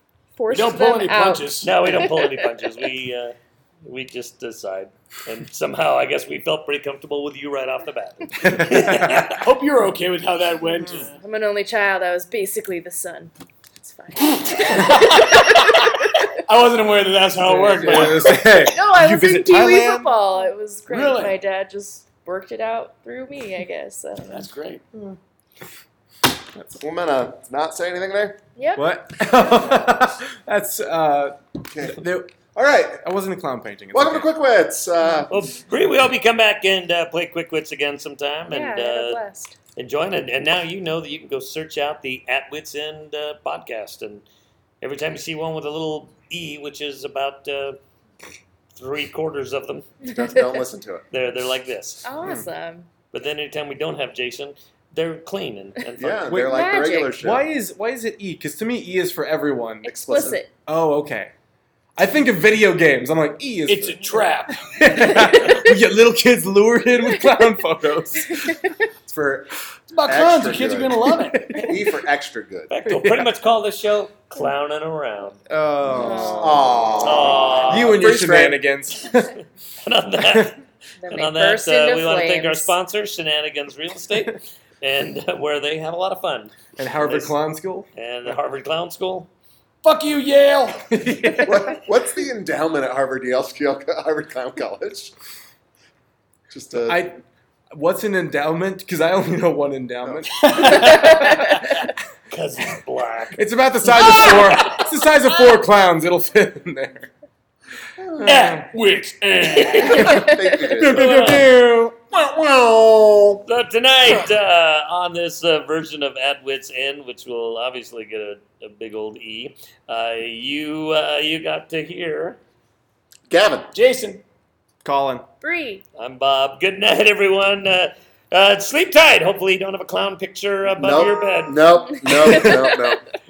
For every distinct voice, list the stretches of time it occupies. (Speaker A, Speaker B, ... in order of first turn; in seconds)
Speaker A: 0.4-2.3, 11.1-16.2, 18.0-25.1, 28.6-28.9, 38.5-39.5, 50.1-50.6, 52.0-52.9, 56.4-57.1, 59.8-60.5, 65.0-65.8, 68.4-68.7, 75.9-76.9, 81.0-82.8, 125.4-125.8, 131.8-133.0
Speaker B: 0.5-2.0, 9.2-11.2, 14.5-15.5, 16.5-18.5, 20.9-21.4, 24.2-24.8, 63.7-64.9, 69.9-71.5, 89.8-91.5, 100.4-101.3, 108.3-110.2, 123.7-124.2
Speaker C: 1.6-9.4, 35.3-39.2, 39.8-44.2, 44.8-47.8, 48.8-49.9, 51.1-52.1, 53.1-56.2, 72.7-75.4, 77.0-78.1, 79.8-80.6, 81.1-87.3, 88.0-89.3, 102.3-103.4, 104.0-104.8, 108.3-108.5, 109.4-110.3, 110.9-111.5, 113.5-122.4, 126.0-131.6
Speaker D: 8.4-9.3, 17.4-20.1, 28.8-32.4, 33.0-34.3, 56.3-61.3, 62.0-68.6, 71.2-71.9, 72.9-73.4, 75.5-77.1, 77.7-79.3, 86.8-87.9, 90.9-91.8, 96.8-97.2, 97.7-101.8, 103.4-107.1, 108.2-108.7, 110.0-112.1, 124.8-125.2
Speaker E: 26.6-28.4, 31.7-32.0, 32.5-33.0, 33.9-35.3, 50.0-51.1, 52.2-52.5, 56.0-57.5, 59.8-60.4, 69.0-69.5, 70.0-72.7, 76.2-78.6, 91.4-95.1, 96.5-97.0, 108.0-108.3, 110.0-111.4, 112.1-113.4, 123.3-123.7, 130.8-133.0